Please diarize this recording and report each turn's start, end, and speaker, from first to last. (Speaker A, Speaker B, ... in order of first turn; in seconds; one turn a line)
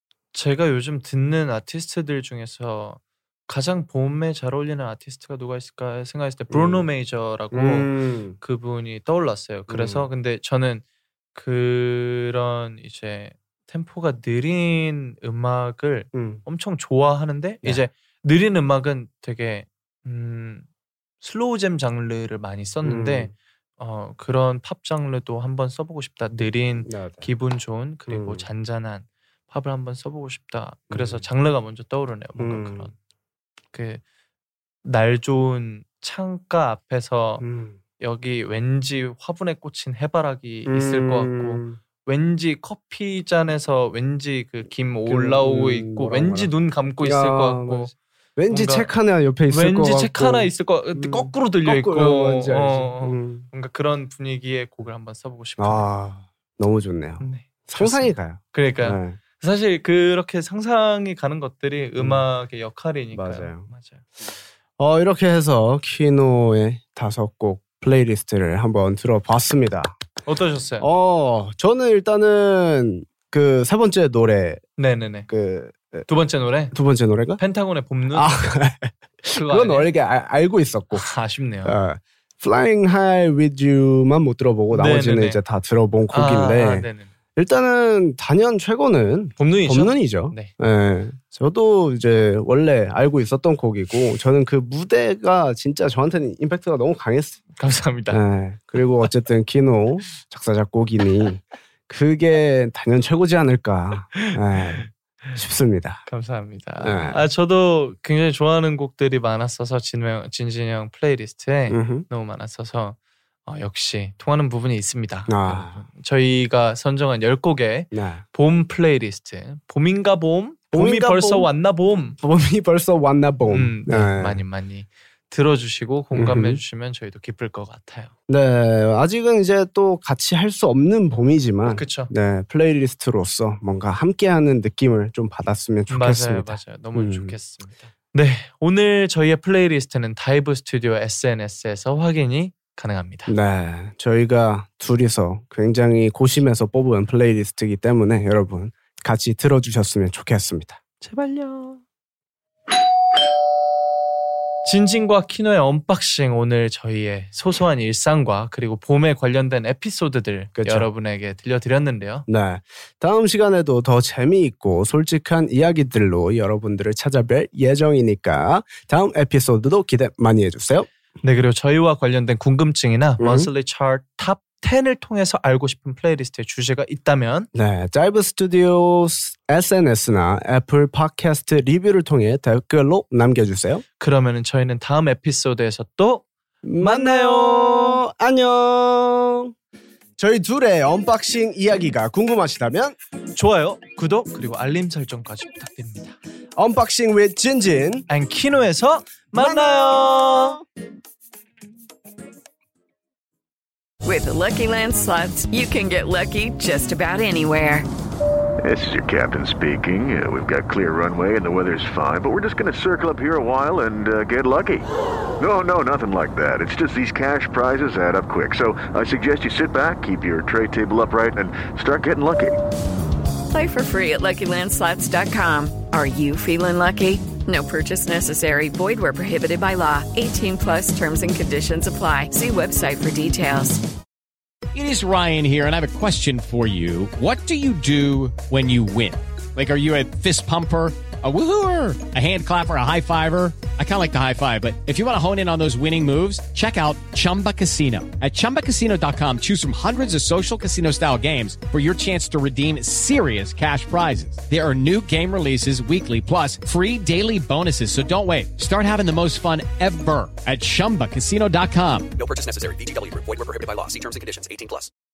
Speaker A: 0.3-10.8
Speaker B: 6.5-6.9
Speaker B: 7.5-8.4
Speaker B: 9.7-10.1
Speaker A: 11.3-20.6
Speaker B: 16.1-16.4
Speaker A: 21.2-32.9
Speaker B: 22.8-23.3
Speaker B: 26.8-27.3
Speaker B: 28.1-28.5
Speaker B: 30.9-31.2
Speaker B: 32.4-32.9
Speaker A: 33.7-34.0
Speaker A: 34.8-37.5
Speaker B: 37.4-37.8
Speaker A: 38.0-47.9
Speaker B: 40.6-41.8
Speaker B: 45.0-53.5
Speaker A: 48.5-48.9
Speaker A: 49.5-55.9
Speaker B: 55.6-59.2
Speaker A: 57.2-64.0
Speaker B: 62.0-62.2
Speaker B: 63.1-63.7
Speaker B: 64.8-70.0
Speaker A: 70.2-70.9
Speaker B: 70.8-74.6
Speaker A: 74.8-75.3
Speaker B: 75.3-76.1
Speaker A: 76.1-76.7
Speaker B: 76.7-77.4
Speaker A: 77.4-78.4
Speaker B: 78.1-81.1
Speaker A: 79.3-79.9
Speaker A: 80.9-81.8
Speaker B: 81.6-97.4
Speaker A: 84.7-85.4
Speaker A: 86.1-87.1
Speaker A: 89.4-90.5
Speaker A: 97.6-98.2
Speaker B: 98.1-106.0
Speaker A: 104.2-105.4
Speaker A: 106.1-122.2
Speaker B: 106.8-107.2
Speaker B: 111.7-112.0
Speaker B: 115.3-115.8
Speaker B: 117.9-118.2
Speaker B: 120.7-121.5
Speaker B: 122.2-124.4
Speaker A: 123.5-128.1
Speaker B: 126.1-126.6
Speaker B: 128.3-137.3
Speaker A: 131.7-132.1
Speaker A: 135.9-143.3
Speaker B: 143.3-150.8
Speaker A: 151.0-151.8
Speaker A: 154.6-162.2
Speaker B: 160.6-160.9
Speaker B: 162.3-170.9
Speaker A: 171.2-177.5
Speaker B: 173.2-173.5
Speaker B: 177.5-183.8
Speaker A: 184.0-186.2
Speaker B: 186.6-189.5
Speaker A: 186.8-188.0
Speaker B: 190.2-192.9
Speaker A: 193.3-196.2
Speaker B: 196.6-198.1
Speaker A: 198.1-200.6
Speaker B: 199.3-200.6
Speaker C: 204.0-207.9
Speaker D: 208.6-214.9
Speaker D: 215.4-222.6
Speaker C: 223.5-233.8
Speaker E: 234.7-262.1
Speaker F: 262.1-264.9